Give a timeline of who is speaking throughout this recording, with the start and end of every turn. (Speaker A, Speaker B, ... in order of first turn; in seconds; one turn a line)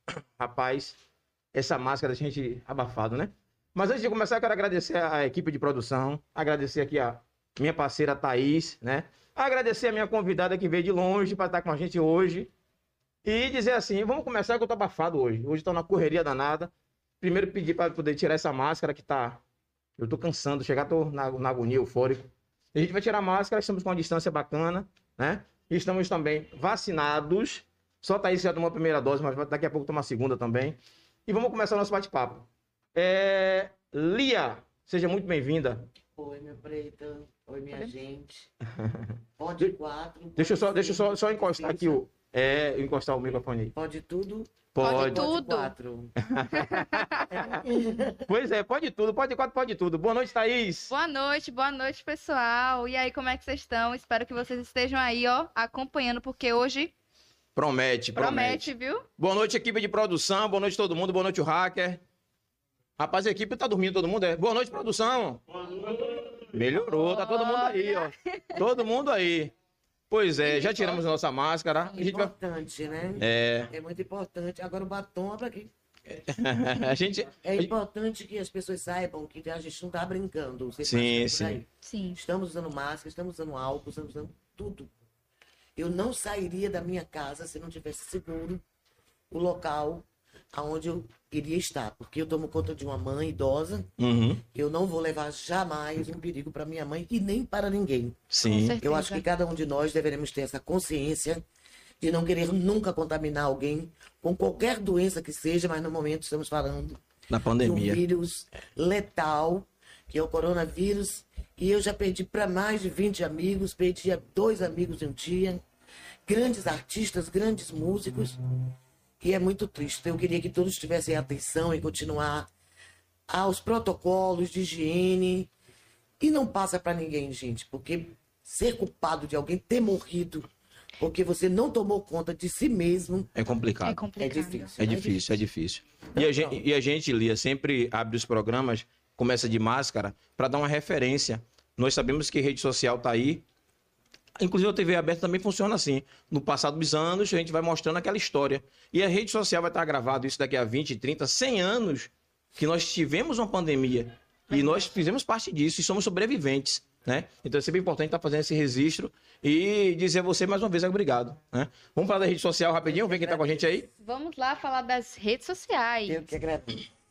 Speaker A: 0.4-1.0
Speaker A: 1.5-12.5
Speaker A: 13.2-19.4
Speaker A: 20.0-35.8
Speaker B: 36.2-38.5
Speaker A: 38.8-39.1
Speaker B: 39.4-42.0
Speaker A: 40.4-43.7
Speaker B: 43.7-46.1
Speaker A: 44.7-45.3
Speaker C: 44.8-45.7
Speaker A: 46.2-47.6
Speaker C: 46.5-47.4
Speaker B: 47.3-48.3
Speaker A: 48.3-50.9
Speaker C: 50.9-56.9
Speaker A: 57.5-62.0
Speaker C: 58.1-59.0
Speaker A: 63.0-69.5
Speaker C: 66.8-68.7
Speaker A: 70.1-72.3
Speaker C: 70.4-71.0
Speaker B: 71.9-75.7
Speaker A: 73.2-73.7
Speaker A: 76.1-77.7
Speaker B: 77.4-84.9
Speaker A: 80.8-81.6
Speaker C: 81.8-82.2
Speaker B: 85.8-88.6
Speaker B: 89.3-93.9
Speaker A: 94.0-94.4
Speaker B: 94.5-98.2
Speaker A: 98.3-98.8
Speaker C: 98.4-99.2
Speaker B: 98.8-101.4
Speaker B: 102.0-107.0
Speaker A: 107.3-108.0
Speaker B: 107.6-115.6
Speaker B: 116.3-118.4
Speaker B: 119.2-122.5
Speaker B: 123.3-125.5
Speaker B: 126.2-130.5
Speaker B: 131.0-133.3
Speaker A: 133.3-134.0
Speaker C: 133.8-134.7
Speaker B: 134.2-135.4
Speaker A: 134.8-143.4
Speaker B: 136.1-136.6
Speaker A: 144.4-163.9
Speaker C: 154.5-154.9
Speaker B: 162.8-163.8
Speaker C: 163.9-166.2
Speaker B: 166.1-166.8